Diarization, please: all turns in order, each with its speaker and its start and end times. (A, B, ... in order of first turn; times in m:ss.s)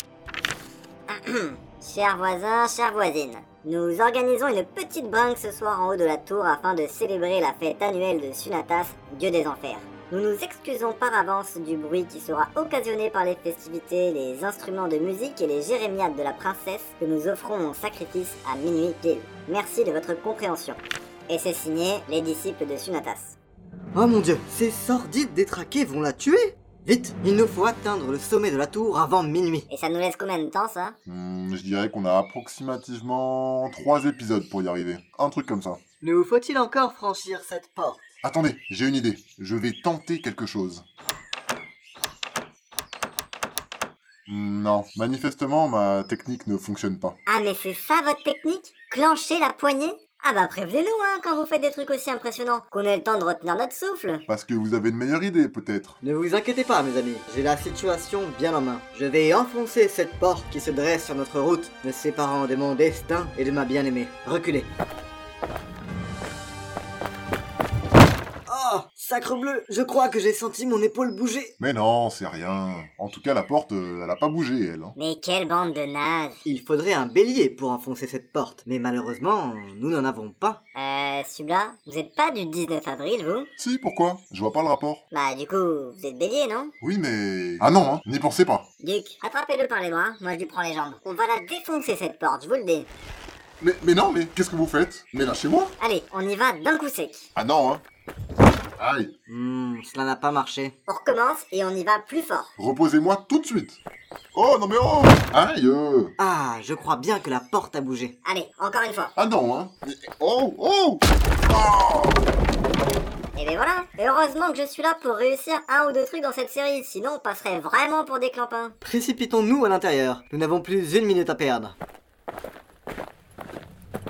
0:01.1-0:23.4 A
0:23.9-0:29.7 B
0:29.7-0:31.0 A
0:31.1-0:35.8 C
0:36.0-0:38.0 B
0:38.2-0:40.8 C
0:44.3-0:47.2 C
0:47.3-0:54.2 A
0:54.3-0:56.0 C
0:56.0-1:04.7 B
1:08.5-1:11.5 B
1:11.6-1:15.0 C
1:15.0-1:16.4 A
1:16.4-1:20.6 B
1:20.8-1:23.5 A
1:23.6-1:25.0 C
1:25.1-1:26.7 A
1:26.8-1:28.7 C
1:28.8-1:32.9 A
1:33.6-1:35.7 C
1:35.8-1:37.3 A
1:37.4-1:37.8 C
1:38.8-1:39.1 C
1:39.3-1:40.7 B
1:40.9-1:42.5 A
1:42.6-1:43.8 C
1:44.3-1:46.1 C
1:46.2-1:48.1 B
1:48.2-1:49.1 A
1:49.2-1:52.2 C
1:53.4-1:58.8 A
1:58.8-2:01.8 B